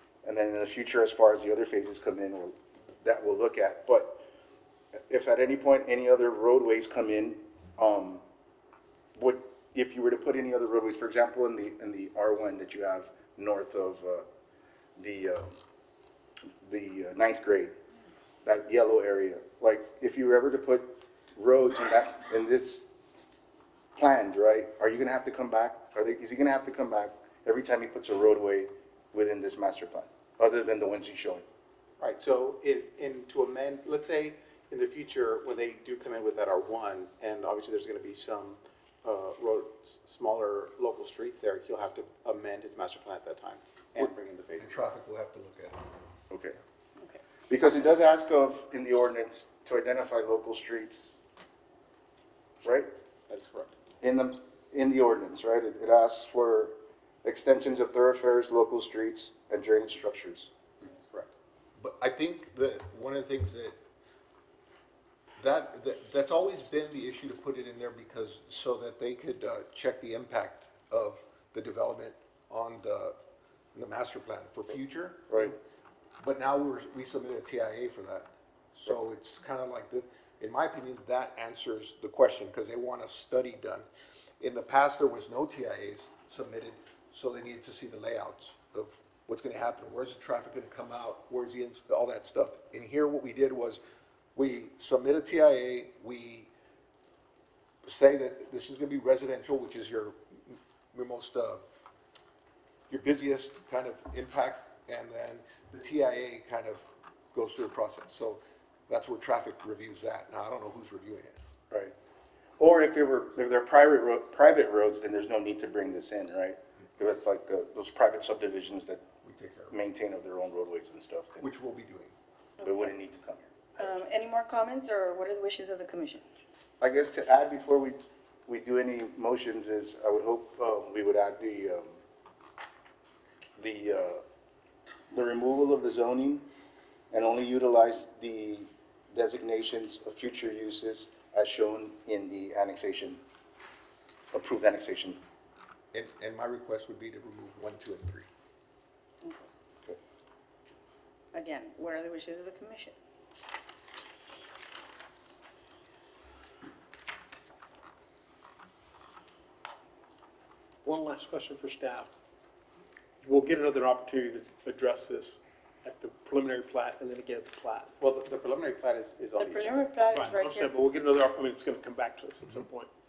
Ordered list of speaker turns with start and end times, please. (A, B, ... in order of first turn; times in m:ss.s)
0:00.2-0:04.2 A
0:05.1-0:08.2 A
0:09.2-0:14.3 A
0:15.0-0:15.6 A
0:16.6-0:17.7 A
0:18.4-0:22.9 A
0:24.0-0:31.4 A
0:32.0-0:44.8 B
0:44.0-0:45.8 C
0:46.3-0:46.6 A
0:47.5-0:51.2 A
0:52.6-0:52.9 A
0:53.3-0:53.8 B
0:54.0-1:00.5 A
1:00.8-1:01.3 B
1:01.8-1:03.8 C
1:05.4-1:13.2 C
1:13.7-1:15.6 C
1:16.2-1:23.9 C
1:24.4-1:33.8 C
1:34.4-1:36.5 C
1:37.9-1:41.6 C
1:42.9-1:51.4 C
1:52.6-1:59.0 A
1:59.2-1:59.8 C
1:59.7-2:01.5 A
2:01.4-2:02.1 C
2:02.6-2:02.8 D
2:02.6-2:03.5 A
2:03.8-2:06.2 D
2:06.8-2:12.0 A
2:13.6-2:14.2 A
2:15.1-2:16.4 A
2:17.1-2:23.2 A
2:24.3-2:25.2 A
2:25.9-2:28.3 C
2:31.3-2:33.0 D
2:40.8-2:42.1 E
2:43.2-2:47.9 E
2:48.0-2:50.0 B
2:49.4-2:50.8 D
2:50.2-2:52.9 E